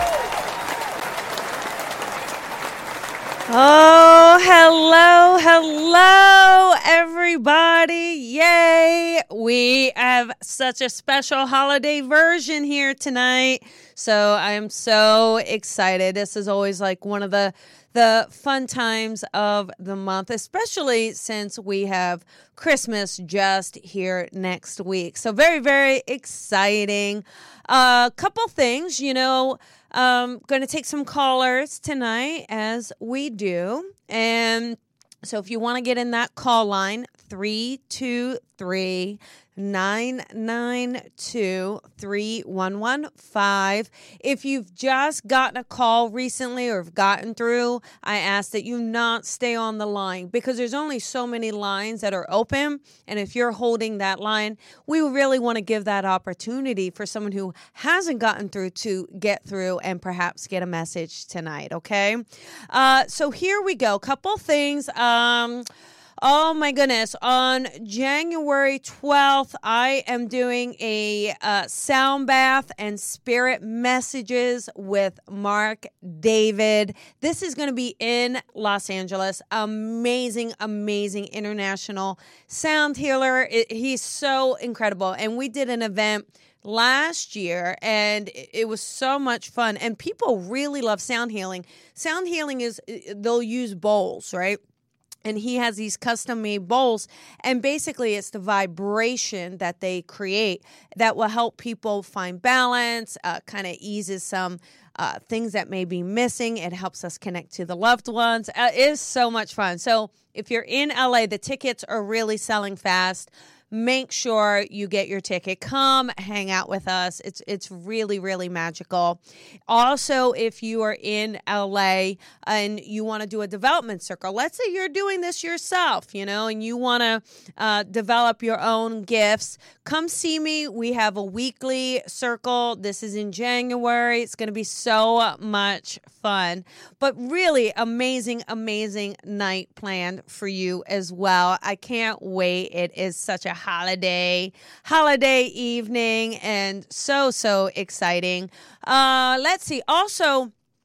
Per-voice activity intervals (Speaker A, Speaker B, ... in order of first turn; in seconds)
Speaker A: 3.5-65.7, 66.2-94.6, 95.2-150.5